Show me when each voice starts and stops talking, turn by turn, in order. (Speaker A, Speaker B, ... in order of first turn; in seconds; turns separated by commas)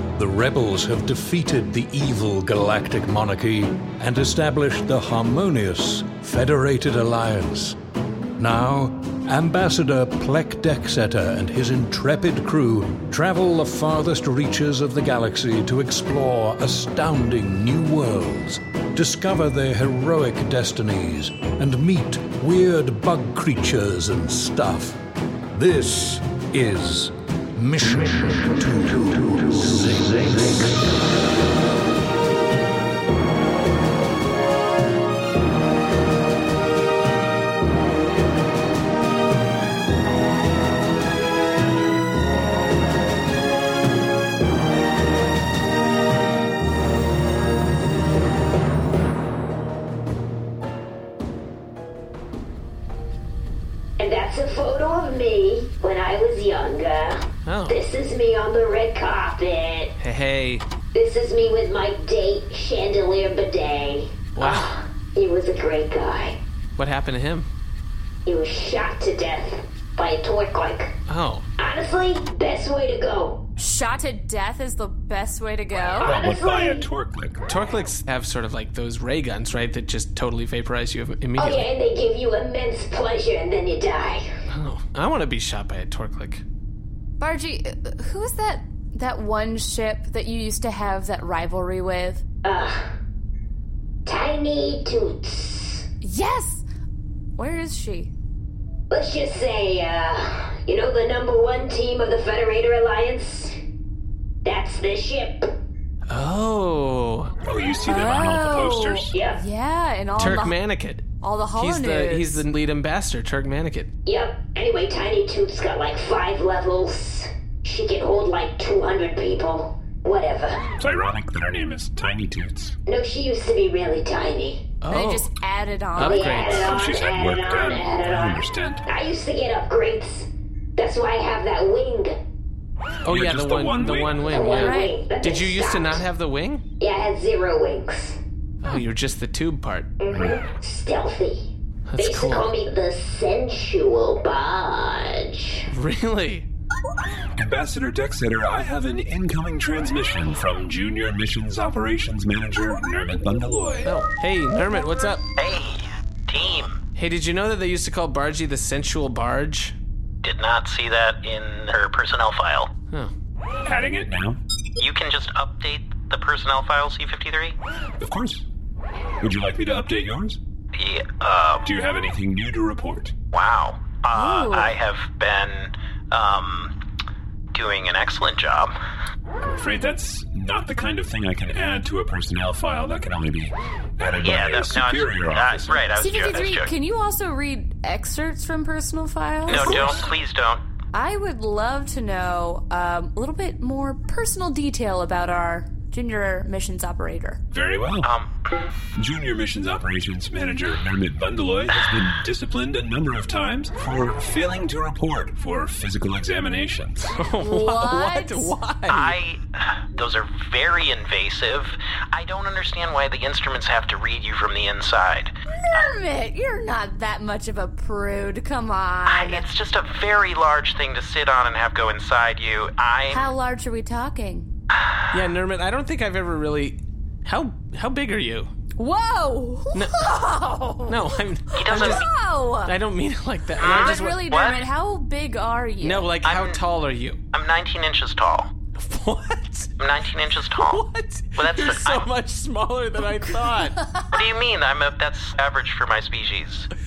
Speaker A: 0.2-7.8, Speaker A: 8.4-25.0, Speaker A: 25.5-31.0, Speaker B: 54.0-59.9, Speaker C: 57.5-57.8, Speaker C: 60.0-60.6, Speaker B: 60.9-66.4, Speaker C: 64.4-64.7, Speaker C: 66.8-67.5, Speaker B: 68.3-71.0, Speaker C: 71.1-71.5, Speaker B: 71.6-73.5, Speaker D: 73.6-76.2, Speaker E: 75.9-77.5, Speaker B: 76.0-76.9, Speaker C: 77.5-81.7, Speaker B: 81.4-84.3, Speaker C: 84.5-86.4, Speaker D: 87.2-92.2, Speaker B: 92.4-92.9, Speaker B: 94.1-95.9, Speaker D: 96.0-96.6, Speaker D: 97.4-98.1, Speaker B: 98.9-103.6, Speaker B: 104.4-105.5, Speaker C: 106.1-107.3, Speaker E: 107.4-109.2, Speaker D: 107.8-110.6, Speaker B: 109.1-109.4, Speaker C: 110.2-113.9, Speaker D: 111.2-112.5, Speaker B: 114.1-120.6, Speaker E: 120.8-122.8, Speaker B: 122.9-124.7, Speaker C: 124.8-125.3, Speaker D: 124.9-126.5, Speaker C: 126.0-126.7, Speaker B: 126.0-132.2, Speaker E: 126.5-128.8, Speaker C: 133.0-136.6, Speaker E: 133.1-134.4, Speaker B: 134.3-136.0, Speaker D: 134.5-134.9, Speaker B: 136.8-138.2, Speaker C: 138.6-139.9, Speaker B: 140.0-145.7, Speaker C: 141.9-142.5, Speaker C: 145.7-146.5, Speaker E: 147.4-153.9, Speaker C: 153.8-155.2, Speaker F: 155.4-156.8, Speaker C: 157.0-159.8, Speaker F: 160.2-162.7, Speaker E: 163.6-164.4, Speaker F: 164.8-167.6, Speaker E: 168.0-168.4, Speaker E: 169.2-170.4, Speaker F: 170.8-171.7, Speaker E: 171.6-173.1, Speaker F: 173.3-176.8, Speaker D: 174.1-174.8, Speaker F: 177.5-178.8, Speaker E: 179.5-185.9, Speaker F: 184.2-186.7, Speaker D: 185.9-190.0, Speaker F: 189.5-190.6, Speaker E: 189.5-190.0, Speaker D: 190.9-197.4, Speaker E: 197.5-198.1, Speaker F: 198.0-198.3, Speaker E: 199.0-207.2, Speaker C: 207.2-209.2, Speaker D: 207.4-208.6, Speaker F: 208.9-215.9, Speaker D: 215.7-219.4, Speaker F: 219.1-223.3, Speaker D: 223.1-224.5, Speaker C: 225.1-228.5, Speaker D: 228.8-232.7, Speaker C: 229.7-230.1, Speaker C: 230.9-232.1, Speaker F: 231.6-232.1, Speaker C: 232.7-234.2, Speaker F: 233.6-234.6, Speaker D: 233.6-236.1, Speaker C: 235.8-237.2, Speaker F: 236.2-236.6, Speaker F: 237.3-238.5, Speaker C: 238.8-239.7, Speaker F: 239.8-240.8, Speaker C: 240.5-243.8, Speaker F: 241.4-242.1, Speaker F: 244.1-246.7